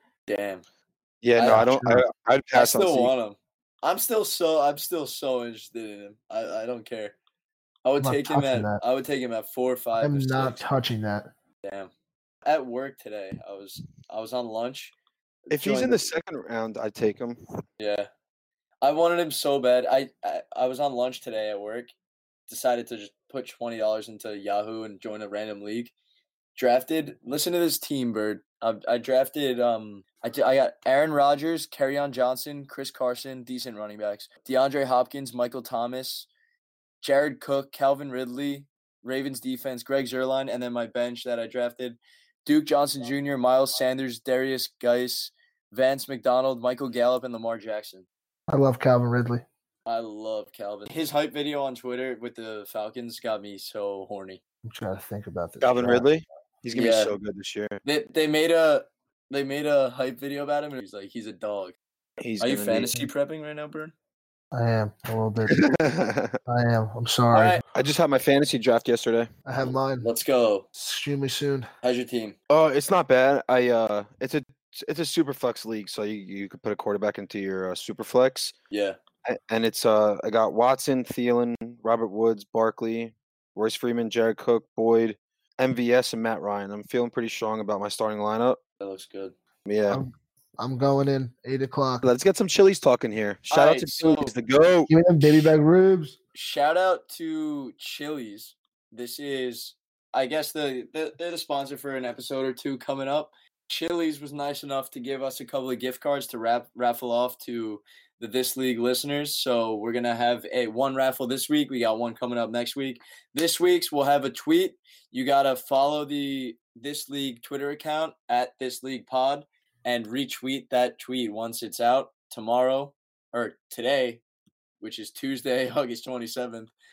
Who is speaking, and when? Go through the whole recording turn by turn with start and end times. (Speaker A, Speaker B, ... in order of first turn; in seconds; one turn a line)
Speaker A: 0.3-0.6
Speaker B: 1.2-3.1
Speaker A: 1.4-1.6
Speaker C: 1.4-2.0
Speaker A: 2.5-7.1
Speaker A: 7.8-10.6
Speaker C: 8.0-8.8
Speaker C: 10.0-11.3
Speaker A: 11.6-11.9
Speaker A: 12.4-14.9
Speaker A: 15.4-16.1
Speaker B: 15.5-17.4
Speaker A: 17.8-18.1
Speaker A: 18.8-21.9
Speaker A: 22.5-25.9
Speaker A: 26.6-36.3
Speaker A: 37.0-48.1
Speaker C: 48.5-49.4
Speaker A: 49.9-54.4
Speaker C: 54.6-56.1
Speaker B: 55.6-57.8
Speaker A: 56.7-57.1
Speaker A: 57.8-61.8
Speaker B: 62.2-62.9
Speaker A: 62.4-63.9
Speaker C: 64.5-65.7
Speaker B: 65.5-66.4
Speaker C: 66.5-67.6
Speaker A: 67.3-67.6
Speaker B: 67.7-69.3
Speaker C: 69.5-70.1
Speaker A: 70.0-70.6
Speaker C: 70.7-71.7
Speaker A: 71.8-72.3
Speaker B: 72.5-78.5
Speaker A: 78.7-79.0
Speaker B: 79.2-88.6
Speaker A: 88.8-89.3
Speaker B: 89.7-90.0
Speaker C: 89.9-92.1
Speaker B: 92.0-95.5
Speaker A: 93.5-94.3
Speaker C: 94.9-96.2
Speaker A: 96.3-124.2
Speaker A: 124.8-126.7